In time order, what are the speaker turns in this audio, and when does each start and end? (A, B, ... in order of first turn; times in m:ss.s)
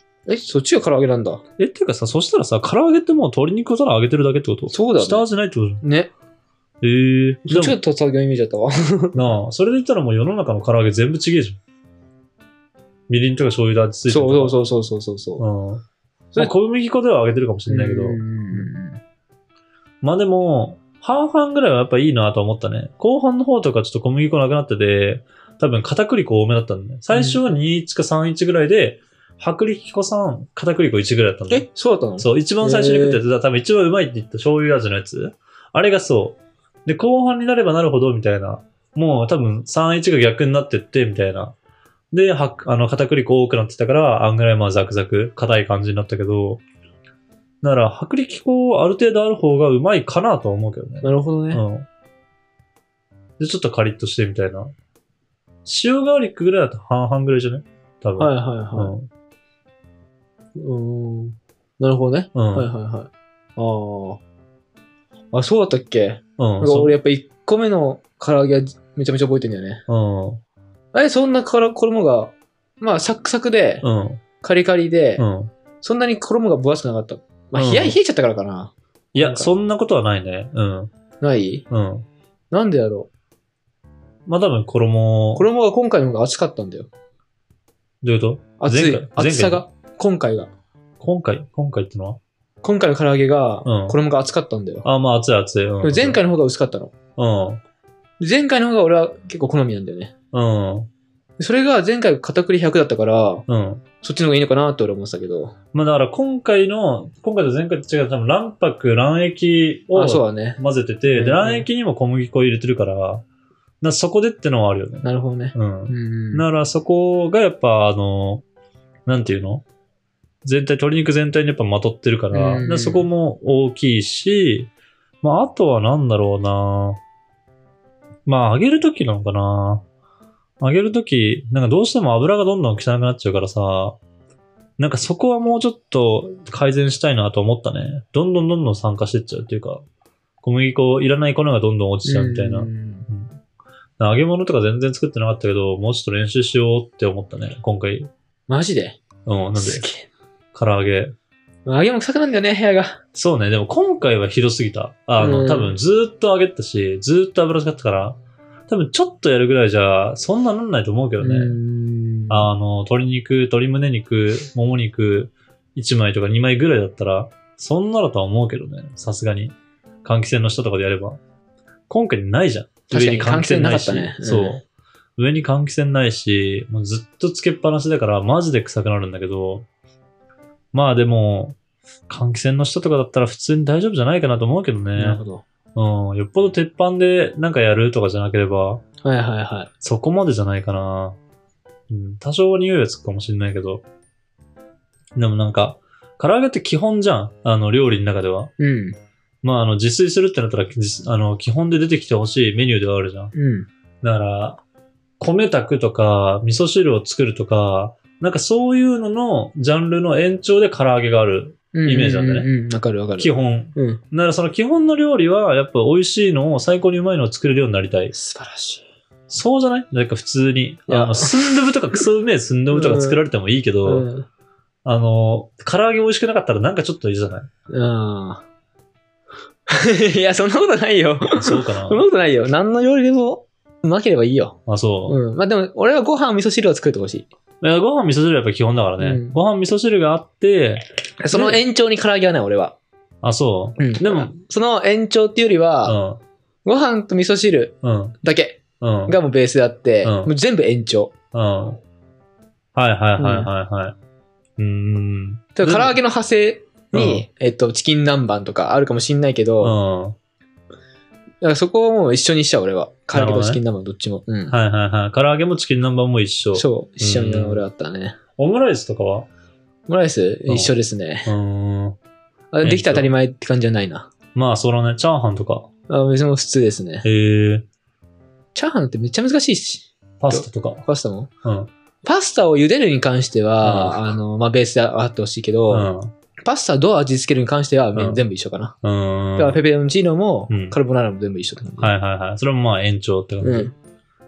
0:00.3-0:01.4 A
0:01.6-0:05.8 B
0:04.7-0:05.3 A
0:05.8-0:06.1 A
0:06.8-0:07.8 B
0:07.5-0:09.2 A
0:09.1-0:11.6 B
0:13.1-0:14.6 B
0:14.1-0:15.4 A
0:15.4-0:15.8 B
0:16.4-0:18.7 B
0:17.7-0:19.0 A
0:20.0-0:31.7 B
0:27.1-0:27.4 A
0:31.5-0:33.2 A
0:32.2-0:41.6 B
0:42.1-0:46.6 B
0:47.6-0:51.9 B
0:51.0-0:51.6 A
0:53.4-0:54.7 B
0:55.6-0:59.1 B
0:58.2-0:58.9 A
1:00.6-1:04.2 A
1:02.3-1:02.7 B
1:05.3-1:09.8 A
1:06.4-1:07.0 B
1:09.9-1:10.4 B
1:10.9-1:13.8 A
1:13.8-1:14.2 B
1:14.4-1:15.2 A
1:15.2-1:15.5 B
1:15.8-1:19.5 A
1:17.6-1:18.0 B
1:19.1-1:20.9 B
1:21.2-1:21.6 A
1:21.7-1:22.1 B
1:22.5-1:23.1 A
1:24.3-1:25.5 B
1:25.4-1:26.9 A
1:28.0-1:29.7 B
1:28.6-1:30.5 A
1:31.0-1:32.2 B
1:32.6-1:34.8 A
1:33.6-1:34.0 B
1:34.8-1:36.2 B
1:35.8-1:36.9 A
1:37.2-1:37.6 B
1:38.2-1:40.1 A
1:40.3-1:40.9 B
1:41.4-1:43.4 A
1:43.5-1:43.8 B
1:44.0-1:45.6 A
1:45.7-1:53.2 B
1:49.9-1:50.6 A
1:51.2-1:51.7 A
1:53.8-1:58.4 B
1:55.0-1:56.4 A
1:59.1-1:59.6 B
2:00.4-2:07.0 B
2:02.3-2:03.1 A
2:08.3-2:09.8 B
2:10.6-2:14.0 B
2:14.8-2:19.8 B
2:20.4-2:23.4 B
2:22.0-2:23.1 A
2:24.0-2:28.1 B
2:28.5-2:29.0 A
2:29.3-2:29.8 B
2:29.6-2:30.1 A
2:30.5-2:31.1 B
2:31.7-2:33.0 A
2:33.1-2:41.6 B
2:35.2-2:35.8 A
2:41.2-2:42.5 A
2:42.3-2:51.2 B
2:51.9-2:54.6 B
2:52.9-2:54.6 A
2:55.2-2:59.7 B
3:00.7-3:01.6 B
3:02.1-3:05.2 B
3:05.0-3:05.4 A
3:05.8-3:08.8 B
3:09.0-3:09.7 A
3:09.8-3:11.2 B
3:11.9-3:13.8 B
3:15.2-3:18.5 B
3:18.6-3:19.0 A
3:19.4-3:23.3 B
3:23.3-3:23.7 A
3:24.0-3:24.6 B
3:25.2-3:32.5 B
3:31.7-3:34.0 A
3:33.2-3:38.1 B
3:38.1-3:38.8 A
3:39.3-3:44.1 B
3:40.9-3:41.7 A
3:42.7-3:43.2 A
3:43.8-3:44.3 A
3:44.8-3:47.5 B
3:47.7-3:48.4 A
3:49.7-3:57.3 A
3:51.4-3:52.0 B
3:54.7-3:55.2 B
3:57.6-4:01.6 B
3:59.0-3:59.4 A
4:01.2-4:02.8 A
4:03.2-4:04.3 B
4:03.8-4:06.0 A
4:05.8-4:06.2 B
4:06.6-4:11.1 A
4:07.8-4:08.2 B
4:08.8-4:09.2 B
4:10.0-4:10.3 B
4:11.3-4:11.8 B
4:12.8-4:14.0 B
4:13.2-4:13.5 A
4:14.6-4:16.0 B
4:15.6-4:19.8 A
4:16.9-4:17.2 B
4:19.6-4:20.2 B
4:21.4-4:24.6 A
4:23.1-4:23.6 B
4:24.5-4:27.6 B
4:26.5-4:28.2 A
4:28.4-4:29.3 B
4:29.9-4:31.3 A
4:31.3-4:32.0 B
4:32.5-4:34.1 A
4:32.6-4:33.1 B
4:34.3-4:35.7 B
4:35.9-4:37.1 A
4:37.0-4:37.6 B
4:38.6-4:41.3 A
4:40.2-4:40.8 B
4:41.4-4:41.7 B
4:42.0-4:48.8 A
4:43.6-4:44.2 B
4:45.7-4:46.1 B
4:48.0-4:48.2 B
4:48.8-4:49.6 B
4:49.4-4:51.9 A
4:50.5-4:50.8 B
4:51.8-4:53.7 B
4:53.4-4:53.7 A